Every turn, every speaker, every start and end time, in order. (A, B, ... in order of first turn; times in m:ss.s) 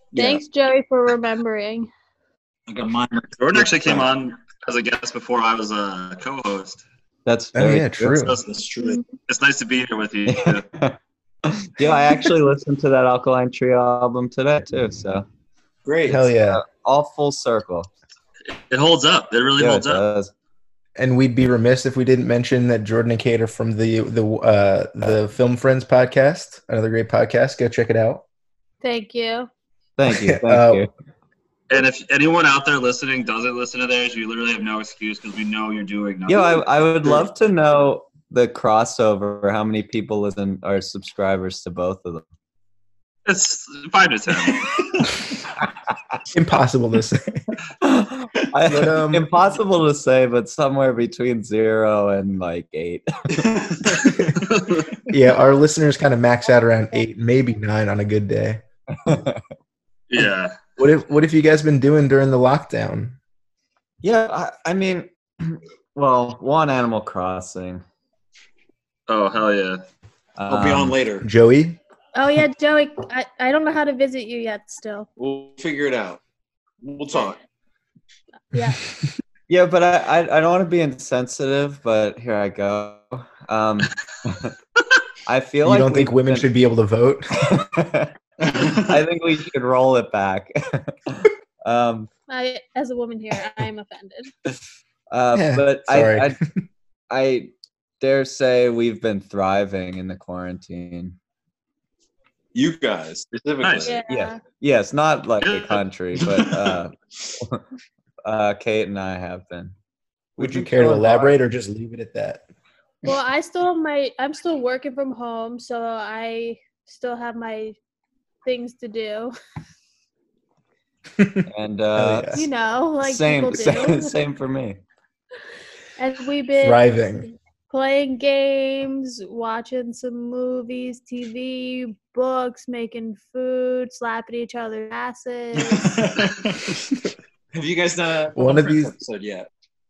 0:00.1-0:00.4 A
0:00.2-0:01.9 B
0:02.7-0:04.1 A
0:03.4-0:06.8 C
0:07.3-0:08.2 D
0:07.6-0:08.4 E
0:08.2-0:08.4 C
0:08.4-0:09.0 A
0:09.3-0:10.6 C
0:10.3-0:15.3 D
0:15.8-0:16.3 A
0:16.1-0:16.6 E
0:16.3-0:17.9 D
0:18.5-0:20.0 C
0:19.6-0:20.3 D
0:21.0-0:28.2 E
0:28.8-0:29.5 B
0:30.0-0:30.9 D
0:30.1-0:30.9 E
0:31.7-0:36.8 C
0:36.3-0:42.2 D
0:43.3-0:44.9 C
0:46.3-0:47.4 E
0:47.8-0:54.0 D
0:48.6-0:49.3 E
0:53.3-0:54.2 A
0:54.1-0:54.4 E
0:54.4-0:54.9 C
0:55.1-0:58.6 E
0:58.9-0:59.4 D
1:00.1-1:00.6 C
1:00.8-1:03.2 E
1:04.0-1:07.8 D
1:09.1-1:09.8 C
1:10.4-1:11.0 D
1:10.5-1:11.3 A
1:11.2-1:11.8 E
1:12.2-1:15.1 B
1:15.2-1:16.2 A
1:16.8-1:17.4 A
1:18.5-1:18.8 B
1:19.5-1:24.5 D
1:25.3-1:26.5 D
1:25.6-1:27.5 E
1:27.4-1:32.1 D
1:28.4-1:29.0 A
1:32.3-1:34.3 B
1:35.1-1:36.4 D
1:35.3-1:36.7 E
1:37.1-1:41.2 D
1:42.6-1:44.0 A
1:43.6-1:44.0 C
1:43.8-1:44.4 B
1:44.1-1:47.6 D
1:45.4-1:45.8 C
1:46.2-1:46.8 A
1:48.2-1:49.7 D
1:50.4-1:51.4 D
1:50.4-1:52.5 E
1:53.0-1:57.8 B
1:58.4-1:59.3 B
2:01.2-2:02.4 E
2:01.5-2:02.4 D
2:02.3-2:04.2 B
2:03.0-2:04.8 D
2:06.0-2:15.9 B
2:06.6-2:07.3 E
2:15.6-2:16.8 A
2:17.5-2:19.5 A
2:18.4-2:18.9 E